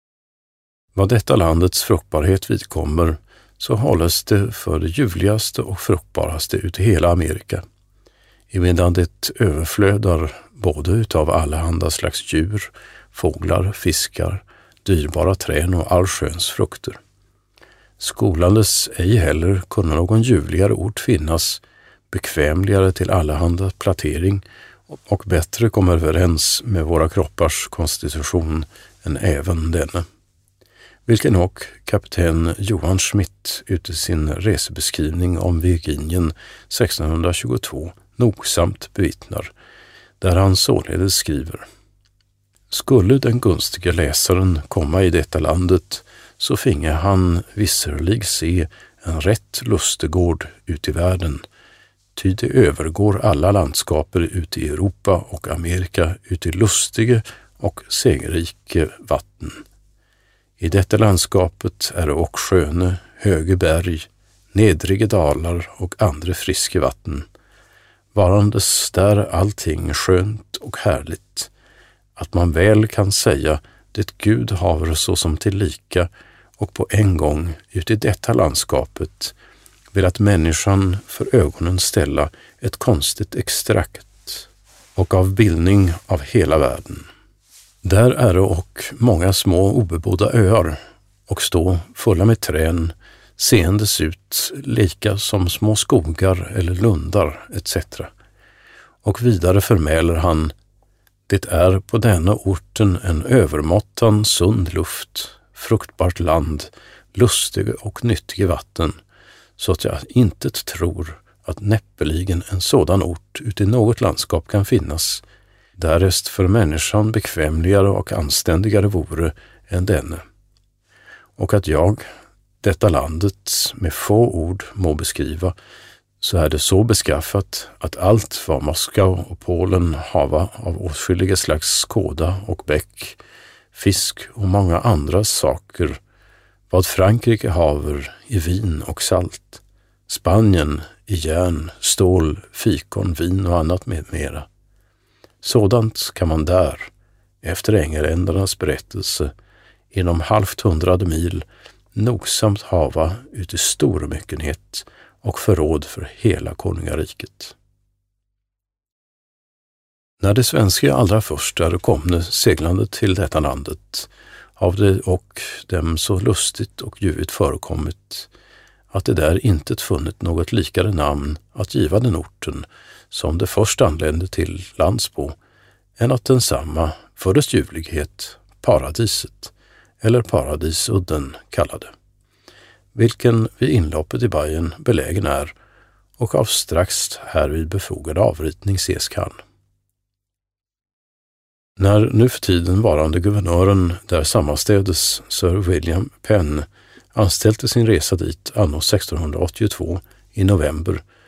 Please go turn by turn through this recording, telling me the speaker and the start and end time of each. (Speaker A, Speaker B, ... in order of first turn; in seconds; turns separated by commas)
Speaker A: 0.9-7.6, Speaker A: 8.5-17.0, Speaker A: 18.0-30.1, Speaker A: 31.1-39.5, Speaker A: 40.2-41.6, Speaker A: 42.7-51.4, Speaker A: 52.1-59.6, Speaker A: 60.6-67.3, Speaker A: 68.1-71.5, Speaker A: 72.2-79.3, Speaker A: 79.9-87.1, Speaker A: 87.8-98.1, Speaker A: 99.0-100.5, Speaker A: 101.3-109.0, Speaker A: 109.6-115.2, Speaker A: 115.8-120.2, Speaker A: 121.4-122.1, Speaker A: 122.6-125.5, Speaker A: 126.2-133.2, Speaker A: 133.7-136.0, Speaker A: 136.7-144.5, Speaker A: 145.4-146.9, Speaker A: 147.4-149.3, Speaker A: 149.9-157.6, Speaker A: 160.2-168.3, Speaker A: 168.9-175.4, Speaker A: 176.0-181.9, Speaker A: 182.9-185.6, Speaker A: 186.2-189.4, Speaker A: 191.8-201.0